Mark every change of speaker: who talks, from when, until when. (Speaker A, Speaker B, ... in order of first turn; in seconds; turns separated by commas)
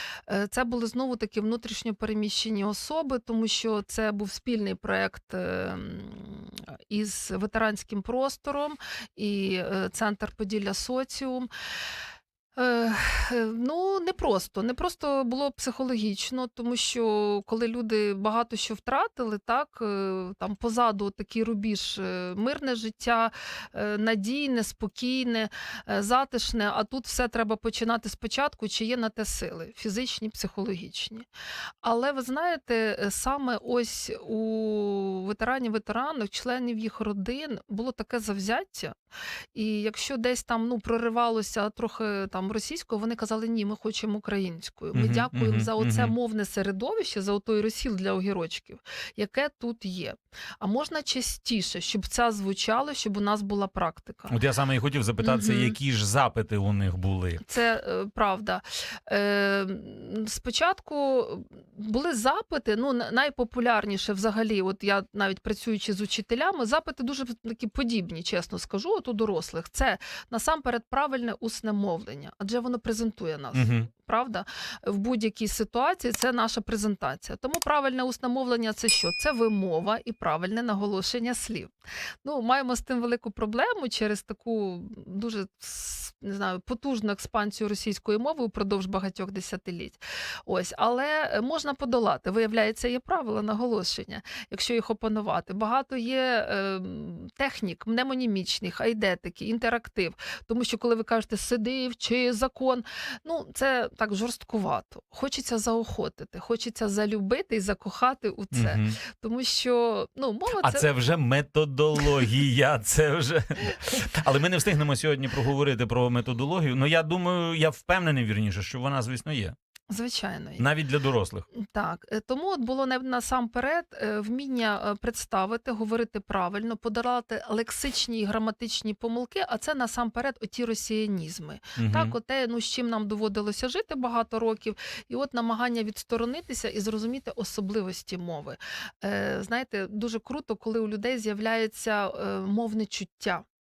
Speaker A: 0.3-11.5, Speaker A: 12.6-31.3, Speaker A: 31.8-39.0, Speaker A: 39.5-54.4, Speaker B: 44.9-46.1, Speaker B: 54.3-57.4, Speaker A: 55.2-55.7, Speaker A: 57.4-81.7, Speaker B: 73.5-73.9, Speaker A: 82.2-110.9, Speaker B: 108.5-109.0, Speaker B: 110.5-119.5, Speaker A: 119.9-120.7, Speaker B: 120.6-121.5, Speaker A: 121.5-143.5, Speaker B: 131.8-132.1